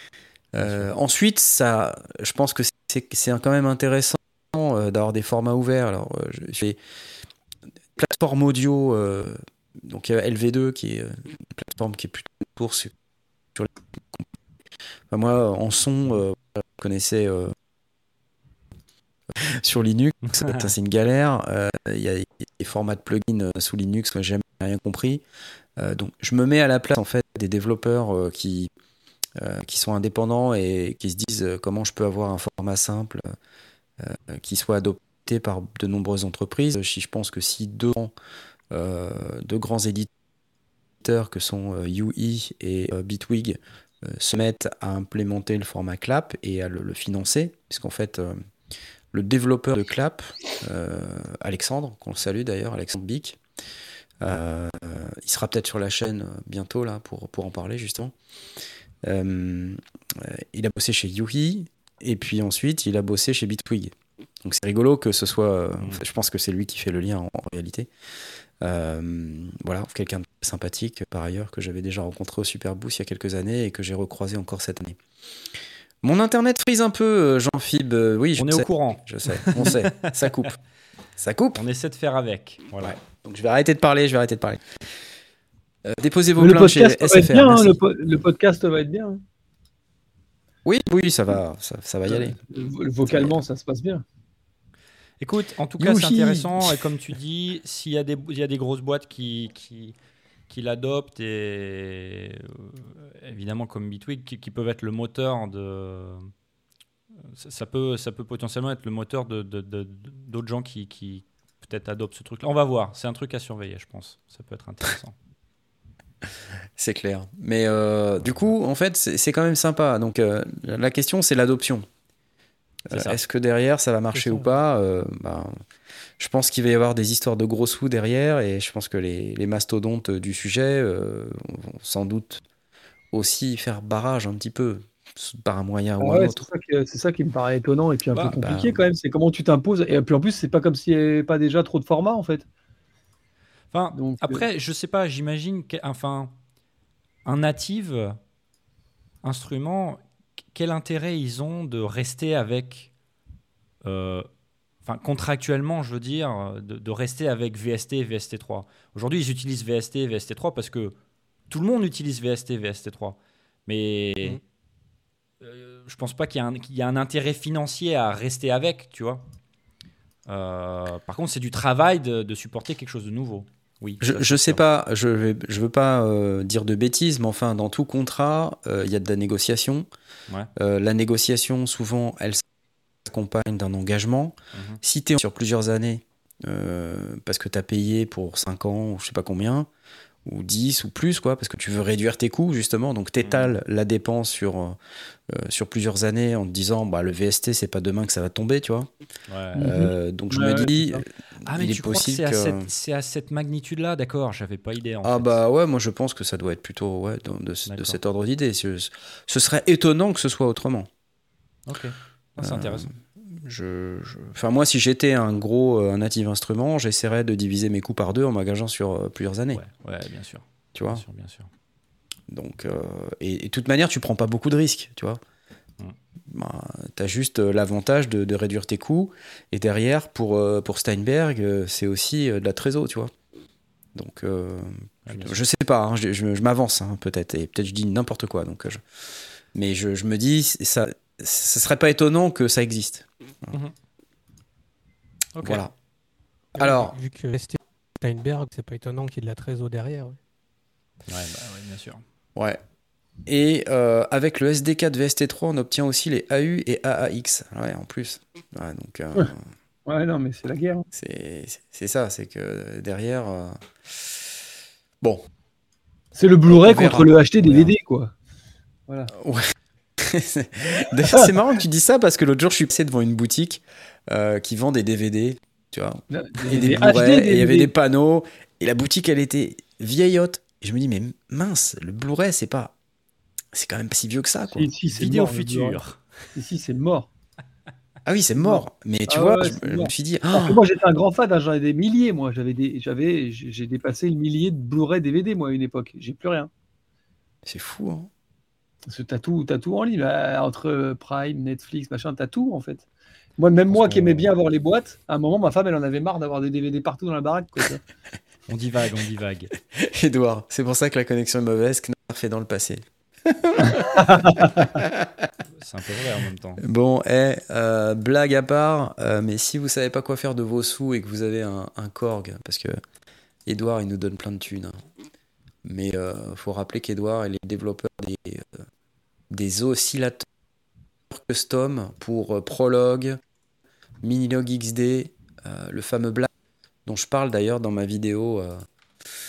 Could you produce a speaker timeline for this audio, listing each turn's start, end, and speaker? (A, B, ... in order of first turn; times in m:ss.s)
0:00.5-0:06.8 A
0:08.0-0:12.9 A
0:13.6-0:14.3 A
0:15.1-0:17.5 A
0:19.4-0:25.2 A
0:20.3-0:20.7 B
0:25.8-0:28.7 A
0:29.4-0:33.3 A
0:34.0-0:38.1 A
0:38.7-0:40.1 A
0:41.0-0:48.4 A
0:49.1-0:53.4 A
0:54.2-0:58.2 A
0:59.0-1:07.9 A
1:08.6-1:15.0 A
1:16.0-1:20.6 A
1:18.4-1:20.5 B
1:21.2-1:21.6 A
1:21.6-1:23.0 B
1:22.8-1:24.6 A
1:25.8-1:27.8 A
1:26.4-1:29.2 C
1:30.6-1:32.4 A
1:32.1-1:34.0 C
1:33.0-1:33.3 A
1:35.2-1:40.0 B
1:35.8-1:36.8 A
1:40.5-1:46.3 B
1:47.2-1:55.1 B
1:56.8-2:01.9 A
2:02.9-2:05.6 A
2:02.9-2:03.2 B
2:04.1-2:04.4 D
2:06.2-2:12.4 A
2:13.1-2:16.5 A
2:16.0-2:22.5 C
2:18.3-2:18.8 A
2:23.7-2:26.3 B
2:23.9-2:24.5 C
2:27.2-2:28.2 B
2:29.2-2:30.0 B
2:30.5-2:32.9 B
2:33.8-2:34.3 B
2:34.8-2:41.0 B
2:41.5-2:44.4 B
2:45.4-2:49.2 B
2:50.3-2:54.6 B
2:54.0-2:59.9 A
3:00.6-3:02.4 A
3:03.0-3:09.7 A
3:04.5-3:04.8 B
3:10.2-3:14.8 A
3:13.2-3:13.6 B
3:15.3-3:18.9 A
3:19.3-3:19.7 B
3:19.6-3:21.0 C
3:19.6-3:22.7 A
3:21.5-3:25.4 B
3:25.0-3:30.9 A
3:27.7-3:28.0 B
3:31.7-3:32.9 B
3:32.4-3:39.6 A
3:39.5-3:41.5 B
3:40.8-3:41.0 A
3:42.3-3:45.2 A
3:46.3-3:53.1 A
3:54.0-3:58.8 A
3:55.1-3:55.4 B
3:59.5-4:03.6 A
4:05.4-4:05.6 B
4:05.4-4:05.7 A
4:06.6-4:10.2 D
4:06.6-4:07.0 A
4:11.1-4:12.0 B
4:12.4-4:12.6 A
4:13.3-4:19.4 A
4:19.9-4:20.9 C
4:20.9-4:24.1 A
4:26.2-4:28.1 C
4:26.5-4:27.7 A
4:29.1-4:42.7 A
4:36.1-4:37.7 C
4:43.5-4:44.7 A
4:44.5-4:45.8 C
4:44.9-4:46.0 B
4:46.4-4:47.1 C
4:48.1-4:50.6 A
4:48.4-4:56.5 C
4:57.5-4:58.1 A
4:58.9-5:02.9 C
5:03.4-5:07.8 C
5:03.7-5:04.3 B
5:08.5-5:09.5 B
5:09.7-5:15.3 A
5:13.6-5:14.8 C
5:15.6-5:16.6 B
5:16.6-5:22.8 A
5:23.5-5:24.8 A
5:25.6-5:28.6 A
5:29.3-5:30.3 A
5:31.1-5:33.2 A
5:34.0-5:36.3 A
5:36.9-5:38.6 A